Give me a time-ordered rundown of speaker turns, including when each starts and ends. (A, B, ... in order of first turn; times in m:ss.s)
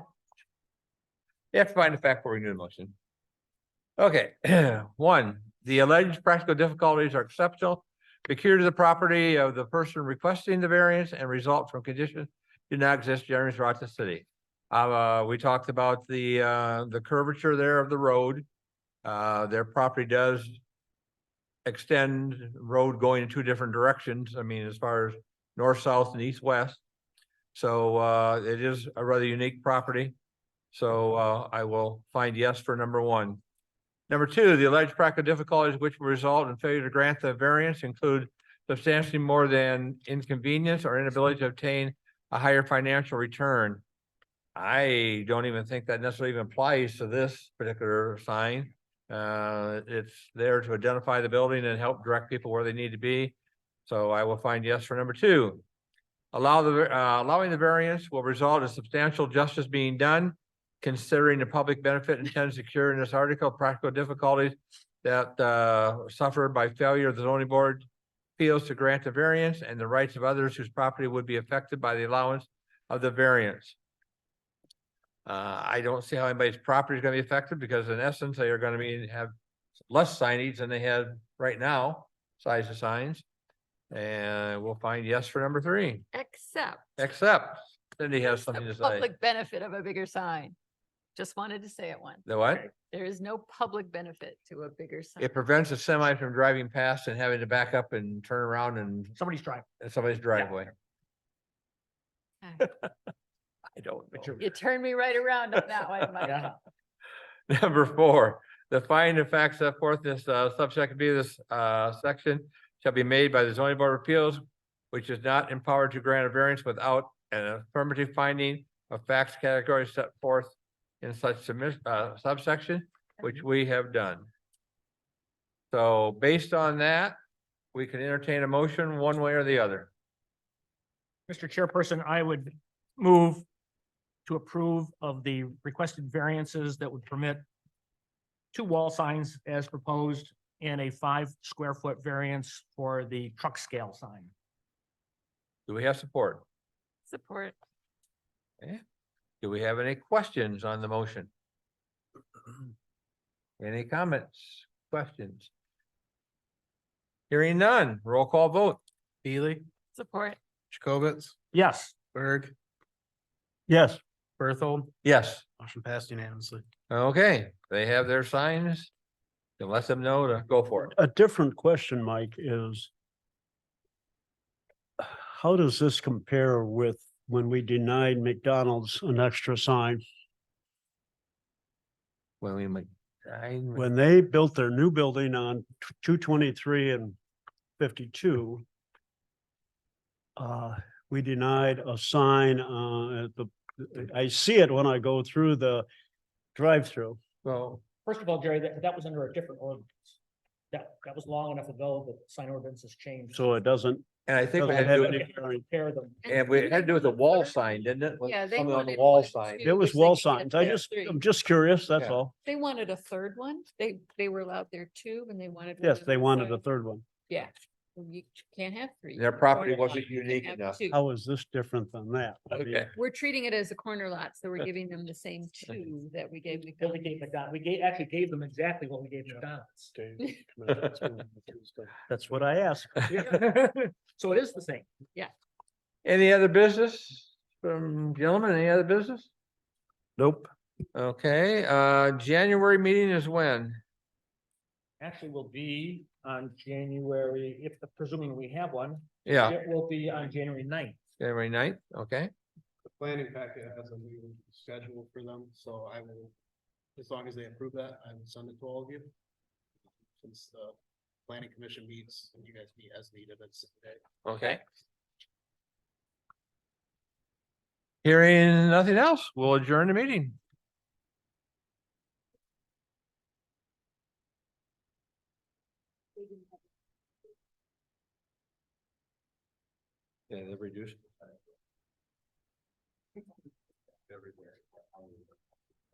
0:01.5-0:02.9 A
0:04.0-0:18.5 A
0:19.0-0:20.6 A
0:21.6-0:26.8 A
0:27.5-0:30.1 A
0:30.7-0:33.4 A
0:34.1-0:43.8 A
0:44.6-0:53.3 A
0:53.9-0:55.6 A
0:56.3-1:07.8 A
1:08.4-1:13.8 A
1:15.2-1:19.3 A
1:19.9-1:23.2 A
1:23.9-1:26.0 A
1:26.1-1:26.9 B
1:27.0-1:29.1 A
1:28.5-1:30.6 B
1:31.1-1:35.4 B
1:32.2-1:32.7 A
1:35.2-1:39.1 A
1:39.2-1:39.6 C
1:39.8-1:40.7 A
1:42.4-1:42.7 B
1:43.8-1:44.4 A
1:44.1-1:44.4 C
1:44.4-1:46.5 B
1:46.2-1:46.5 C
1:47.5-2:04.3 A
2:05.7-2:07.2 A
2:07.7-2:09.9 A
2:11.3-2:13.4 C
2:14.2-2:17.4 C
2:18.5-2:24.3 C
2:25.7-2:26.4 A
2:27.1-2:27.5 B
2:29.4-2:31.3 A
2:33.6-2:35.5 A
2:37.3-2:38.8 A
2:39.2-2:39.6 D
2:40.0-2:40.4 B
2:40.7-2:41.4 D
2:41.5-2:41.9 C
2:42.1-2:42.5 D
2:43.7-2:44.0 E
2:44.4-2:44.9 D
2:45.0-2:45.4 A
2:45.6-2:46.6 D
2:46.9-2:48.9 A
2:49.6-2:50.9 A
2:50.9-2:52.9 E
2:55.0-3:00.0 E
3:02.4-3:03.9 A
3:03.7-3:07.2 E
3:07.8-3:08.6 E
3:10.4-3:15.8 E
3:16.5-3:17.2 E
3:17.4-3:17.8 A
3:18.0-3:20.2 C
3:20.7-3:23.6 C
3:23.3-3:25.6 E
3:24.3-3:25.2 A
3:24.6-3:26.4 C
3:26.2-3:27.6 B
3:26.3-3:29.7 A
3:28.2-3:31.2 B
3:29.6-3:32.3 E
3:32.4-3:36.6 B
3:35.8-3:37.0 E
3:37.2-3:41.0 B
3:39.2-3:40.8 A
3:40.9-3:42.9 E
3:42.5-3:42.9 A
3:42.9-3:47.0 B
3:46.8-3:49.9 C
3:50.0-3:53.1 E
3:53.1-3:54.8 C
3:56.0-3:59.3 A
4:00.2-4:00.5 E
4:00.9-4:03.8 A
4:05.0-4:11.0 C
4:09.2-4:09.6 A
4:11.2-4:12.3 A
4:13.0-4:16.3 D
4:17.0-4:19.1 D
4:20.2-4:20.8 D
4:21.3-4:24.0 D
4:24.2-4:24.6 A
4:28.0-4:30.4 A
4:40.3-4:41.3 A